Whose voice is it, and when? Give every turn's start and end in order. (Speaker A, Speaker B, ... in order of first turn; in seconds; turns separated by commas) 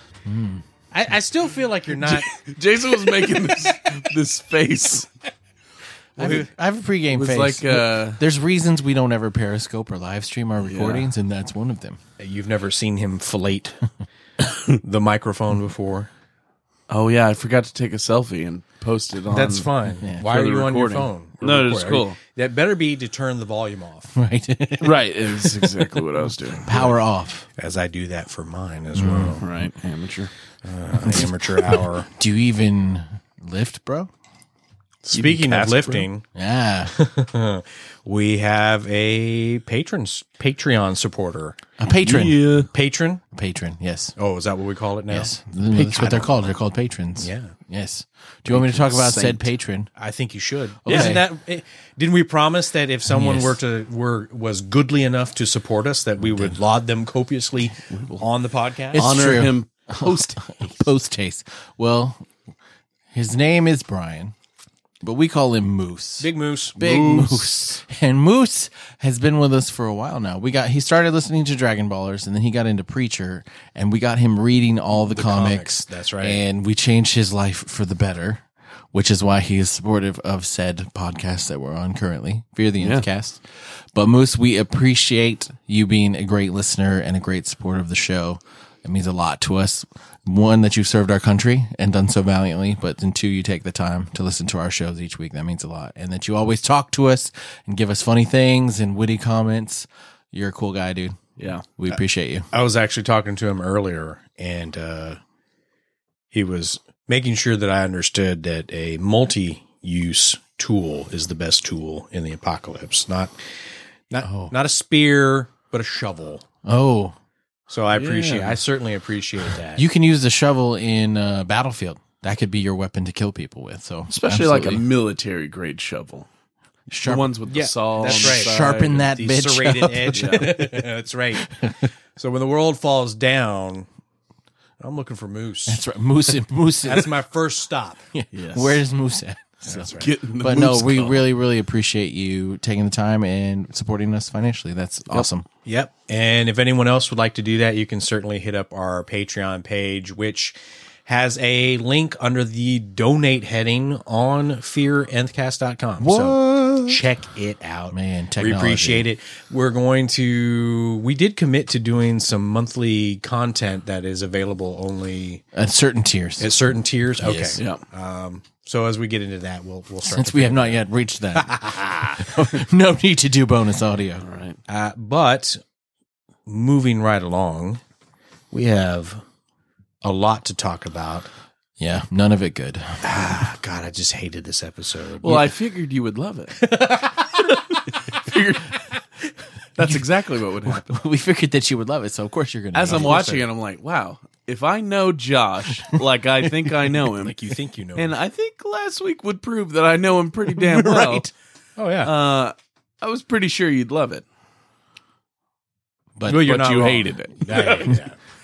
Speaker A: 0.2-0.6, Speaker B: 0.9-2.3, Speaker C: 2.0-5.1, Speaker B: 3.0-4.0, Speaker A: 6.2-12.0, Speaker B: 6.2-6.5, Speaker C: 7.1-8.2, Speaker C: 10.6-11.1, Speaker B: 12.2-13.8, Speaker B: 14.8-16.1, Speaker C: 16.9-19.7, Speaker B: 19.3-24.1, Speaker C: 20.2-22.2, Speaker A: 24.1-26.1, Speaker C: 24.8-26.8, Speaker A: 26.6-27.5, Speaker B: 27.6-29.5, Speaker A: 29.0-29.4, Speaker C: 29.4-30.3, Speaker B: 30.6-32.1, Speaker A: 31.0-31.3, Speaker A: 32.1-34.1, Speaker C: 35.0-36.1, Speaker B: 35.1-36.2, Speaker A: 36.4-36.9, Speaker B: 36.9-41.6, Speaker A: 41.8-42.7, Speaker C: 42.0-42.7, Speaker B: 42.7-43.2, Speaker A: 43.3-44.1, Speaker B: 44.2-45.4, Speaker A: 45.1-49.9, Speaker C: 45.7-46.3, Speaker B: 47.2-47.5, Speaker C: 48.5-49.5, Speaker B: 50.0-59.1, Speaker C: 50.9-51.2, Speaker A: 50.9-51.2, Speaker A: 53.1-53.6, Speaker A: 56.2-56.6, Speaker C: 57.9-58.2, Speaker A: 58.9-62.3, Speaker C: 59.0-60.9, Speaker A: 63.1-64.3, Speaker A: 65.0-102.5, Speaker B: 66.2-67.4, Speaker C: 66.9-67.5, Speaker B: 75.0-76.4, Speaker C: 82.8-83.0, Speaker C: 101.4-101.7, Speaker B: 102.5-105.2, Speaker B: 106.3-113.3, Speaker B: 114.1-116.4, Speaker A: 114.2-114.5, Speaker A: 116.7-117.2, Speaker B: 117.7-119.8, Speaker C: 117.9-118.6, Speaker A: 119.8-124.8, Speaker C: 124.1-126.3, Speaker A: 126.9-127.4, Speaker C: 127.0-129.0, Speaker B: 127.5-131.5, Speaker A: 128.0-130.8, Speaker C: 130.2-130.5, Speaker A: 131.6-131.8, Speaker B: 132.2-133.9, Speaker B: 134.8-135.8, Speaker A: 135.7-137.1, Speaker B: 136.8-138.0, Speaker A: 138.1-145.5, Speaker C: 138.3-138.8, Speaker B: 139.7-140.1, Speaker C: 140.0-141.3, Speaker B: 145.7-150.6, Speaker B: 151.1-165.4, Speaker A: 156.0-157.0, Speaker A: 157.9-159.1, Speaker A: 165.5-166.5, Speaker B: 166.4-170.8, Speaker A: 167.2-167.6, Speaker A: 170.1-174.2, Speaker B: 171.3-172.4, Speaker C: 174.2-174.6, Speaker B: 174.7-175.6, Speaker B: 176.5-177.8, Speaker B: 178.5-179.2, Speaker B: 180.0-181.3, Speaker A: 181.8-183.0, Speaker B: 183.0-185.5, Speaker C: 185.2-186.7, Speaker B: 186.6-187.8, Speaker C: 187.4-188.8, Speaker C: 189.8-190.9, Speaker A: 190.6-193.2, Speaker C: 192.7-197.4, Speaker B: 192.9-193.5, Speaker B: 197.2-198.1, Speaker C: 198.0-201.3, Speaker B: 200.7-202.1, Speaker C: 202.0-204.2, Speaker A: 206.2-206.4, Speaker B: 206.3-208.2, Speaker C: 206.3-207.9